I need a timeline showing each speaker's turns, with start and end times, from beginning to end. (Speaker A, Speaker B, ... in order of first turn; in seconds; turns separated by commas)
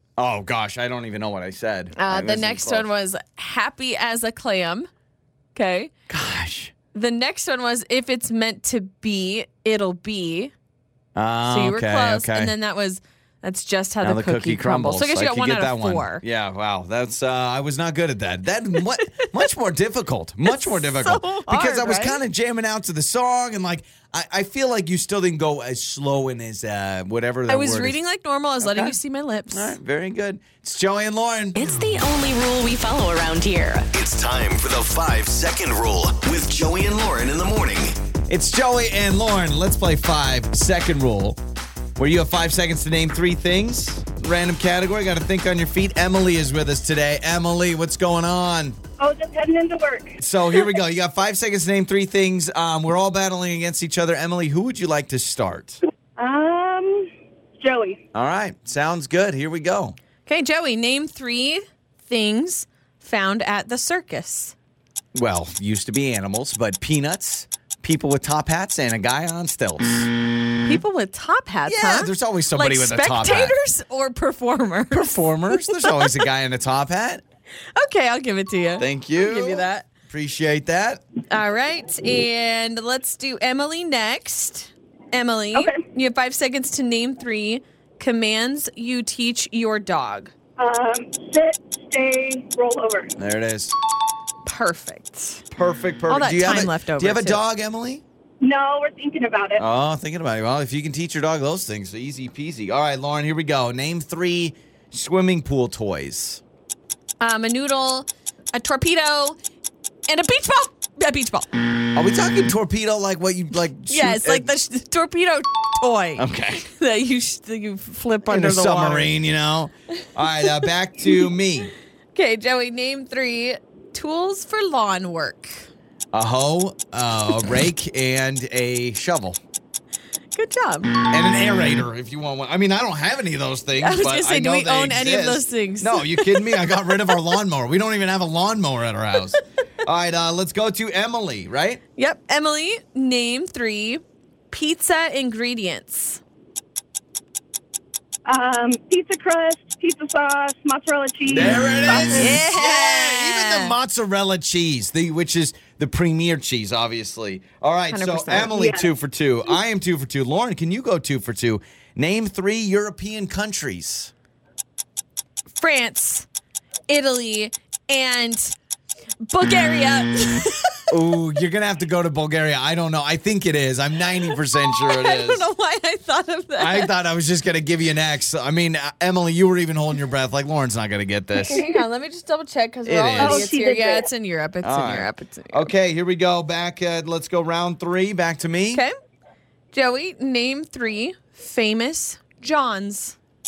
Speaker A: 0.2-2.9, Speaker B: 1.9-4.9, Speaker B: 5.5-5.9, Speaker A: 6.1-6.7, Speaker B: 6.9-10.5, Speaker A: 11.2-12.5, Speaker B: 11.5-16.2, Speaker A: 14.0-28.0, Speaker B: 19.0-19.3, Speaker B: 20.4-22.2, Speaker B: 27.5-29.8, Speaker A: 28.6-29.0, Speaker A: 29.5-31.6, Speaker C: 31.6-33.9, Speaker D: 33.9-38.0, Speaker A: 38.3-41.4, Speaker A: 42.0-48.8, Speaker E: 49.0-50.2, Speaker A: 50.2-55.8, Speaker E: 56.2-58.0, Speaker A: 58.1-60.0, Speaker B: 60.3-64.5, Speaker A: 65.1-70.1, Speaker B: 70.6-76.2, Speaker A: 71.7-73.6, Speaker A: 74.9-77.2, Speaker B: 77.8-79.9, Speaker A: 78.8-81.0, Speaker B: 81.3-90.3, Speaker E: 85.5-85.8, Speaker E: 90.6-93.1, Speaker A: 93.2-93.7, Speaker B: 94.5-95.4, Speaker A: 95.5-98.0, Speaker B: 96.1-97.4, Speaker E: 98.4-99.6, Speaker A: 99.6-106.4, Speaker B: 107.2-109.4, Speaker B: 110.1-111.5, Speaker A: 111.9-114.5, Speaker B: 113.9-119.1, Speaker A: 116.2-116.7, Speaker A: 118.3-121.7, Speaker B: 122.2-125.7, Speaker A: 126.1-129.4, Speaker B: 130.3-130.9, Speaker A: 130.9-141.8, Speaker B: 133.8-136.9, Speaker B: 142.0-146.2, Speaker E: 148.3-152.4, Speaker A: 151.3-164.1, Speaker B: 152.0-153.8, Speaker B: 157.9-158.5, Speaker E: 158.5-158.9, Speaker B: 165.6-166.3, Speaker B: 166.9-168.5, Speaker B: 169.3-170.8, Speaker A: 170.9-175.5, Speaker B: 174.7-176.9, Speaker A: 176.6-181.6, Speaker B: 181.4-185.7, Speaker A: 182.9-183.5, Speaker E: 183.2-184.1, Speaker A: 184.6-188.8, Speaker B: 189.7-193.2